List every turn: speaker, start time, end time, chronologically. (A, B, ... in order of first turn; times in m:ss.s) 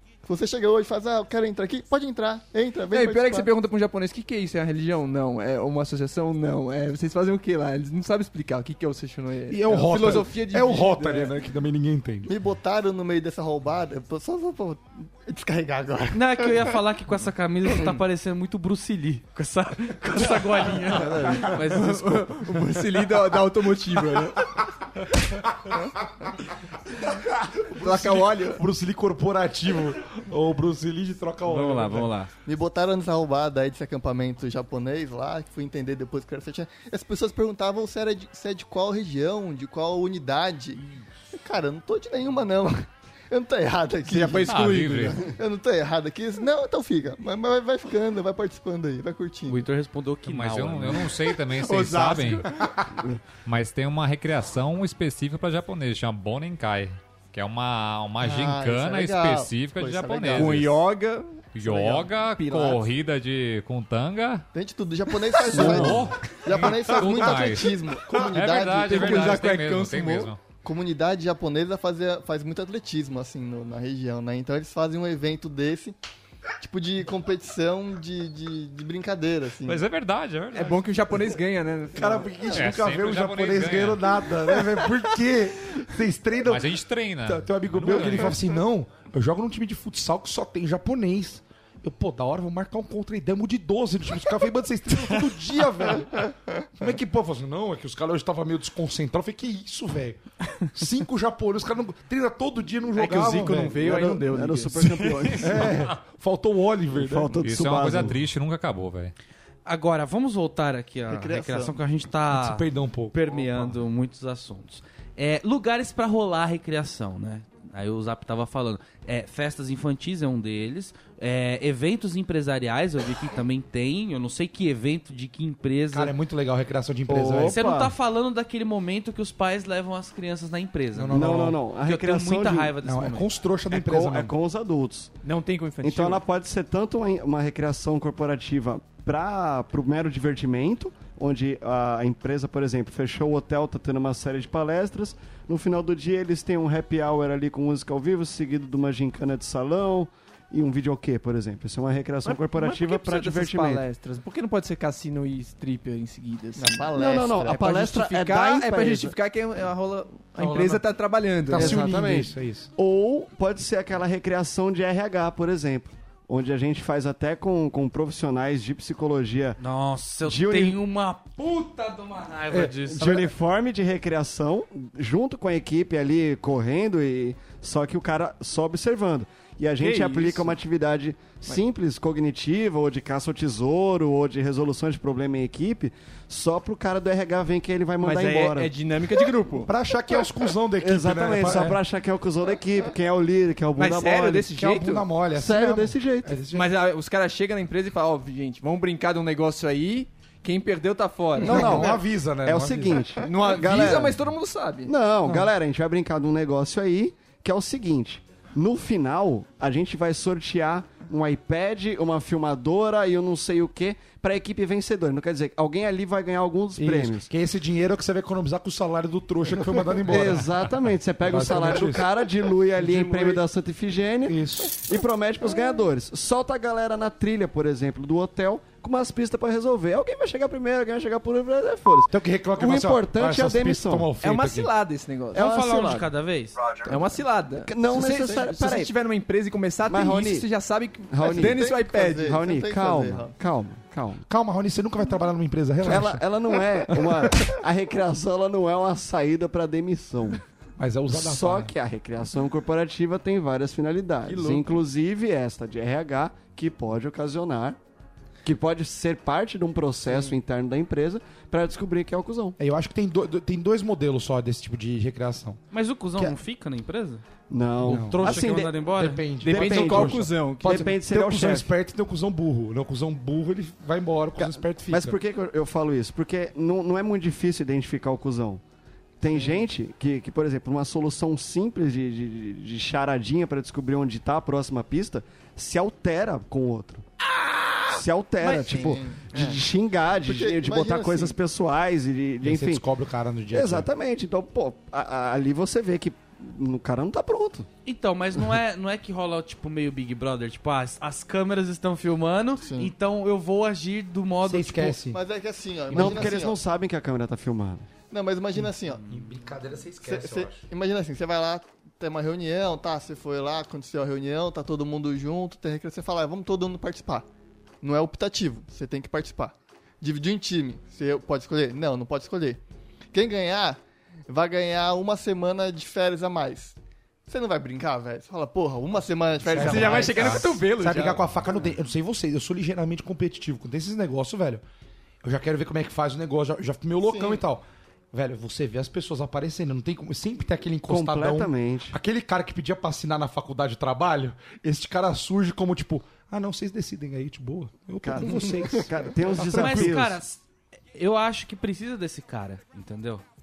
0:00.2-0:03.5 A
0:02.9-0:11.3 B
0:09.5-0:12.3 C
0:12.2-0:16.7 A
0:16.1-0:22.5 D
0:20.8-0:24.4 B
0:27.4-0:32.1 C
0:27.8-0:28.6 B
0:31.4-0:32.3 D
0:32.4-0:40.8 A
0:41.4-0:44.7 A
0:44.1-0:45.3 B
0:44.5-0:45.2 E
0:45.4-0:49.7 A
0:49.5-0:51.1 D
0:50.2-0:52.5 E
0:51.5-0:52.6 B
0:53.4-1:00.8 E
0:58.2-1:00.5 A
1:00.3-1:02.8 B
1:01.5-1:04.5 E
1:04.5-1:09.4 A
1:05.4-1:10.4 E
1:05.6-1:06.1 F
1:08.8-1:10.3 B
1:10.6-1:15.9 A
1:16.6-1:19.8 A
1:19.6-1:20.8 E
1:20.5-1:22.4 B
1:21.9-1:44.3 C
1:22.5-1:24.0 E
1:26.4-1:28.4 E
1:42.9-1:45.5 B
1:43.8-1:45.9 F
1:45.4-1:47.4 C
1:46.9-1:48.2 F
1:47.4-1:49.1 E
1:49.6-2:06.1 D
1:51.1-1:51.8 A
1:52.3-1:53.7 C
2:05.9-2:07.6 C
2:07.1-2:07.9 F
2:07.4-2:13.3 D
2:10.9-2:11.6 C
2:11.1-2:12.7 F
2:12.8-2:14.3 C
2:13.7-2:15.1 F
2:15.2-2:16.2 B
2:15.8-2:33.8 F
2:32.2-2:36.9 B
2:36.6-2:37.7 A
2:36.9-2:39.1 F
2:37.5-2:41.8 B
2:40.4-2:40.8 C
2:41.5-2:42.7 C
2:41.5-2:49.6 F
2:49.6-2:53.1 D
2:50.2-2:50.8 F
2:52.5-2:53.3 C
2:52.9-3:08.7 F
2:59.8-3:00.6 B
3:08.0-3:09.7 B
3:09.6-3:11.8 C
3:10.8-3:14.5 F
3:13.8-3:15.0 B
3:14.6-3:16.7 C
3:15.3-3:16.4 F
3:16.5-3:21.9 B
3:21.4-3:24.2 F
3:21.4-3:23.1 C
3:23.2-3:24.9 B
3:24.8-3:37.3 F
3:36.8-3:40.6 C
3:40.0-3:54.1 F
3:41.2-3:42.1 C
3:42.7-3:43.4 C
3:44.3-3:44.8 C
3:52.1-3:54.7 C
3:54.2-3:55.5 B
3:55.3-3:56.6 D
3:55.3-3:56.1 F
3:56.8-4:02.4 B
3:57.6-3:58.9 F
3:59.8-4:00.5 F
4:01.1-4:04.2 F
4:01.4-4:03.3 A
4:04.3-4:06.2 C
4:05.8-4:10.4 F
4:10.8-4:11.7 C
4:11.1-4:17.8 F
4:14.2-4:14.7 B
4:18.4-4:22.6 F
4:20.1-4:20.3 B
4:22.6-4:25.6 C
4:25.7-4:27.2 D
4:27.5-4:28.8 F
4:27.8-4:35.2 C
4:27.8-4:29.2 D
4:29.4-4:31.0 B
4:29.4-4:31.7 F
4:34.4-4:38.6 F
4:39.2-4:47.1 F
4:47.9-4:52.8 F
4:48.5-4:49.4 A
4:50.2-4:51.4 A
4:52.4-4:53.9 C
4:53.5-4:57.7 F
4:57.8-5:05.0 D
5:02.6-5:02.9 A
5:04.4-5:05.2 C
5:05.1-5:06.6 A
5:05.9-5:06.2 C
5:05.9-5:07.9 F
5:08.1-5:09.0 A
5:09.1-5:10.6 C
5:10.0-5:17.2 A
5:17.8-5:22.6 A
5:23.1-5:26.7 A
5:27.3-5:30.6 A
5:29.5-5:31.3 B
5:29.5-5:34.6 C
5:35.2-5:50.0 C
5:37.1-5:37.4 A
5:40.9-5:42.0 F
5:48.0-5:50.2 F
5:49.5-5:50.4 D
5:50.9-5:53.2 D